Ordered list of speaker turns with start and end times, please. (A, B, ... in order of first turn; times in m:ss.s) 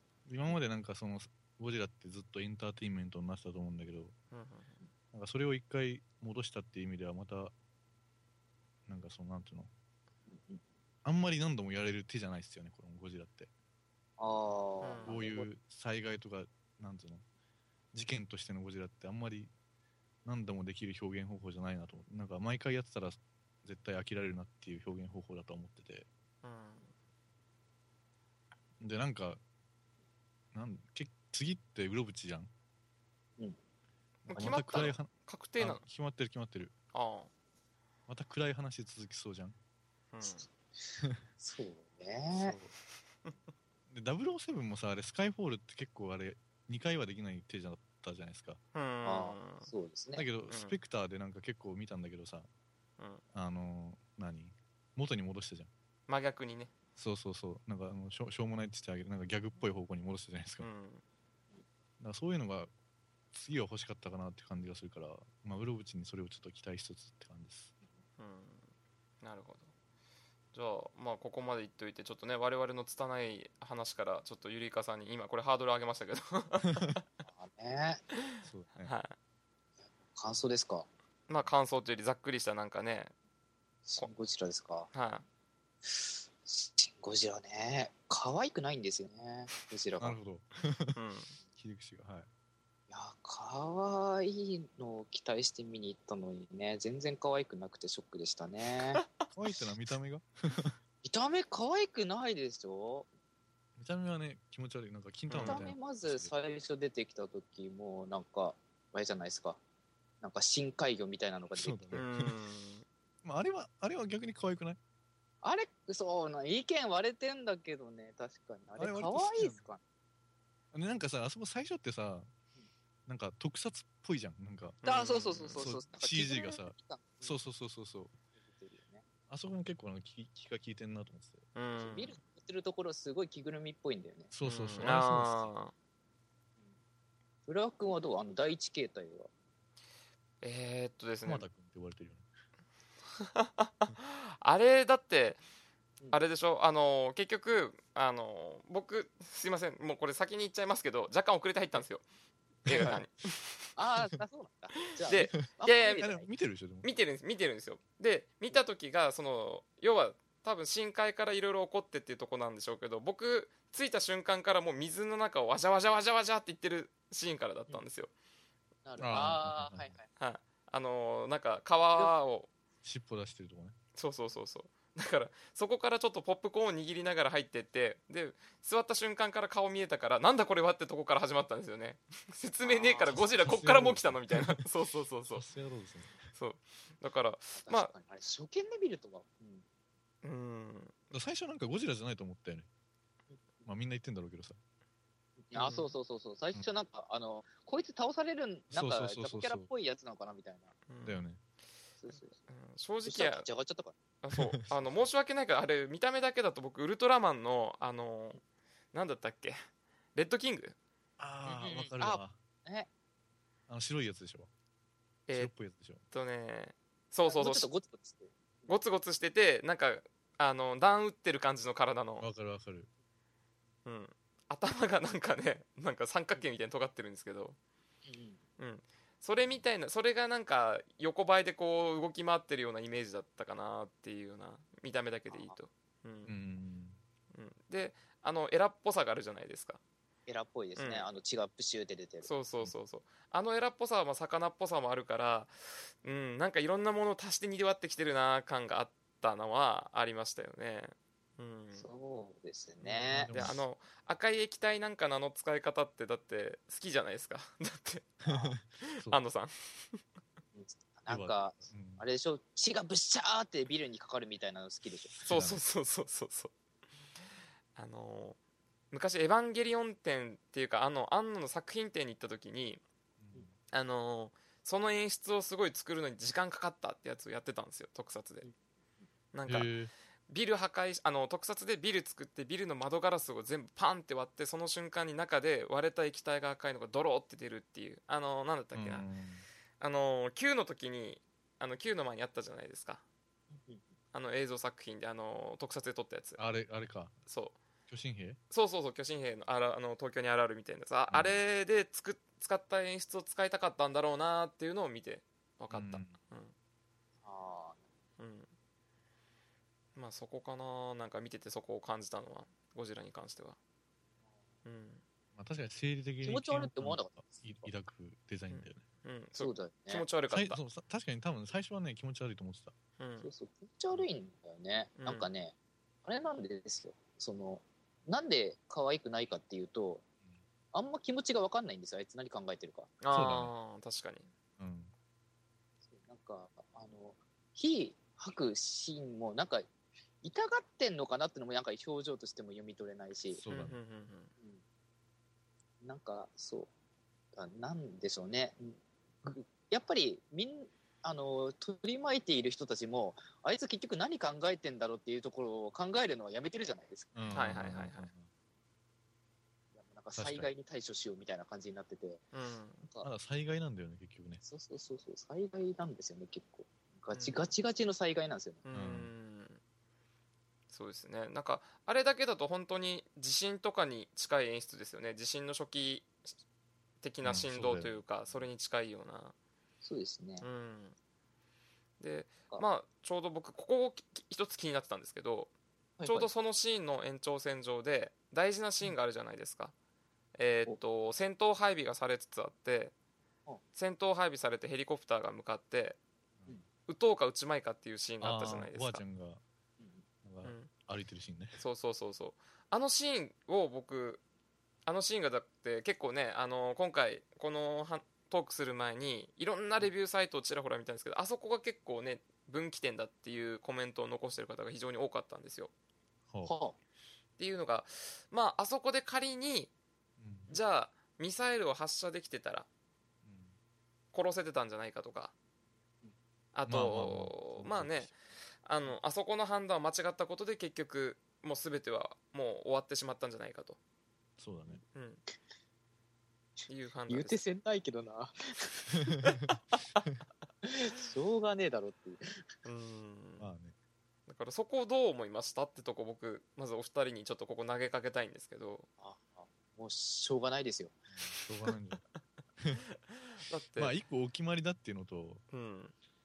0:00.3-0:04.1 A
0:04.3-0:04.8 B
0:05.1-0:07.5 A
0:08.9-0:09.7 A
0:10.3-0:10.6 C
0:11.0-0:13.5 A
0:14.2-0:15.5 C
0:14.8-0:15.2 B
0:15.1-0:17.2 A
0:17.9-0:19.5 A
0:20.2-0:26.1 A
0:26.4-0:26.9 B
0:28.8-0:29.4 A
0:30.5-0:32.5 A
0:34.3-0:36.7 A
0:34.3-0:35.8 B
0:36.9-0:37.3 B
0:38.1-0:39.6 A
0:40.1-0:40.5 B
0:41.4-0:42.6 C
0:42.3-0:42.7 A
0:43.9-0:48.6 A
0:48.7-0:49.7 B
0:49.0-0:50.3 C
0:50.2-0:52.5 A
0:50.5-0:50.8 B
0:53.3-0:55.7 A
0:56.1-0:56.7 B
0:57.0-1:00.7 A
1:00.6-1:01.0 B
1:02.0-1:02.7 A
1:03.3-1:07.7 A
1:08.2-1:08.7 B
1:09.2-1:09.7 B
1:10.5-1:17.0 B
1:17.2-1:18.0 C
1:18.4-1:18.9 A
1:18.8-1:19.2 B
1:20.1-1:20.9 C
1:21.3-1:23.1 B
1:23.9-1:24.9 C
1:24.9-1:25.2 B
1:25.9-1:30.2 C
1:30.0-1:31.0 A
1:30.9-1:31.3 B
1:31.6-1:32.3 A
1:32.9-1:39.0 C
1:39.3-1:40.8 A
1:41.0-1:43.1 C
1:43.8-1:46.3 A
1:45.3-1:45.6 B
1:45.4-1:49.6 C
1:50.2-1:52.0 C
1:51.6-1:52.3 A
1:51.9-1:52.9 B
1:53.2-1:54.8 A
1:55.4-1:59.8 C
1:58.8-1:59.7 A
2:00.7-2:02.3 A
2:03.1-2:04.8 A
2:04.8-2:05.6 B
2:04.8-2:07.4 C
2:05.6-2:08.1 A
2:08.4-2:09.0 C
2:09.3-2:11.4 A
2:11.6-2:12.2 B
2:11.8-2:14.3 C
2:14.3-2:15.5 A
2:14.4-2:15.7 B
2:17.5-2:19.3 C
2:20.4-2:21.5 B
2:21.2-2:22.3 A
2:23.2-2:25.4 B
2:26.1-2:32.0 B
2:32.6-2:33.6 B
2:32.7-2:33.0 A
2:33.8-2:36.3 C
2:35.1-2:36.1 B
2:36.0-2:36.9 A
2:36.8-2:48.1 B
2:48.8-2:50.0 C
2:49.0-2:50.0 A
2:50.2-2:52.5 B
2:52.8-2:53.8 A
2:54.0-3:05.5 B
3:02.6-3:03.2 C
3:03.1-3:04.6 A
3:05.3-3:06.3 A
3:06.3-3:07.9 B
3:07.6-3:09.6 C
3:10.2-3:10.9 B
3:11.1-3:12.7 A
3:13.6-3:14.6 A
3:15.5-3:20.8 C
3:15.6-3:15.9 B
3:18.7-3:19.7 A
3:20.9-3:21.3 B
3:21.0-3:21.4 A
3:22.0-3:22.4 C
3:22.5-3:23.5 B
3:23.1-3:24.0 C
3:24.2-3:28.4 B
3:24.4-3:25.0 A
3:28.9-3:29.6 B
3:30.2-3:30.8 B
3:31.2-3:32.4 A
3:31.4-3:32.9 C
3:33.7-3:34.5 A
3:35.3-3:36.0 A
3:36.1-3:37.7 B
3:37.3-3:38.8 C
3:38.7-3:42.3 B
3:42.2-3:42.9 A
3:43.8-3:47.6 B
3:48.1-3:48.4 C
3:48.6-3:56.3 B
3:55.3-3:55.6 C
3:56.3-3:57.0 A
3:57.3-3:59.8 B
4:00.3-4:02.3 C
4:00.8-4:01.1 B
4:02.2-4:11.9 B
4:11.8-4:13.4 C
4:12.8-4:13.6 A
4:13.3-4:18.1 B
4:18.2-4:19.2 A
4:18.3-4:18.6 C
4:19.0-4:20.0 B
4:20.6-4:25.1 C
4:21.1-4:22.0 A
4:25.0-4:25.6 A
4:25.3-4:26.5 B
4:27.8-4:28.4 B
4:28.9-4:32.8 B
4:33.2-4:33.6 A
4:33.7-4:38.5 B
4:39.3-4:39.7 B
4:39.5-4:39.9 A
4:40.3-4:49.1 B
4:48.7-4:49.4 A
4:49.8-4:53.0 B
4:53.5-4:53.8 C
4:54.1-4:56.4 B
4:56.4-4:57.2 A
4:57.3-4:57.6 B
4:57.9-4:58.4 A
4:58.5-5:06.5 B
5:01.1-5:01.4 A
5:05.7-5:06.2 A
5:07.2-5:07.8 C
5:08.2-5:08.5 B
5:10.0-5:13.6 B
5:14.6-5:15.0 B
5:15.4-5:18.8 A
5:16.2-5:17.7 C
5:18.5-5:20.6 B
5:19.4-5:20.1 C
5:20.3-5:22.8 A
5:23.0-5:23.3 B
5:23.2-5:25.6 C
5:25.0-5:25.3 B
5:26.1-5:30.0 C
5:30.7-5:33.0 C
5:33.0-5:34.3 B
5:33.1-5:33.5 A
5:34.6-5:34.9 A
5:35.9-5:39.7 C
5:40.2-5:43.4 C
5:43.3-5:43.8 A
5:43.5-5:44.3 B
5:45.8-5:46.7 C
5:47.4-5:57.2 C
5:57.2-5:58.3 A
5:57.3-5:58.1 B
5:59.8-6:02.3 C
6:00.2-6:00.5 A
6:02.3-6:02.8 B
6:03.0-6:04.4 A
6:04.4-6:08.6 C
6:07.1-6:07.5 B
6:08.6-6:09.6 B
6:08.7-6:09.1 A
6:10.7-6:16.3 B
6:17.0-6:19.4 B
6:17.2-6:18.5 A
6:19.8-6:20.5 C
6:20.4-6:21.0 B
6:22.0-6:25.5 B
6:26.0-6:26.3 C
6:26.1-6:29.7 B
6:30.4-6:32.9 B
6:33.7-6:36.0 B
6:36.9-6:39.0 B
6:38.2-6:39.4 A
6:39.8-6:40.0 C
6:40.2-6:41.6 A
6:40.4-6:40.7 B
6:41.6-6:44.2 B
6:44.9-6:55.7 B
6:56.4-6:56.8 C
6:57.4-6:59.7 B
7:00.2-7:00.5 A
7:00.5-7:02.7 B
7:03.2-7:03.6 A
7:04.1-7:05.3 B
7:06.5-7:13.8 B
7:06.7-7:08.2 A
7:14.4-7:14.8 A
7:14.9-7:15.2 B
7:16.6-7:19.4 C
7:16.7-7:17.4 B
7:20.6-7:22.4 C
7:22.6-7:23.5 B
7:23.4-7:23.8 A
7:24.3-7:28.9 B
7:29.0-7:31.0 C
7:31.2-7:32.0 A
7:33.1-7:34.0 B
7:33.8-7:35.4 A
7:35.5-7:35.9 B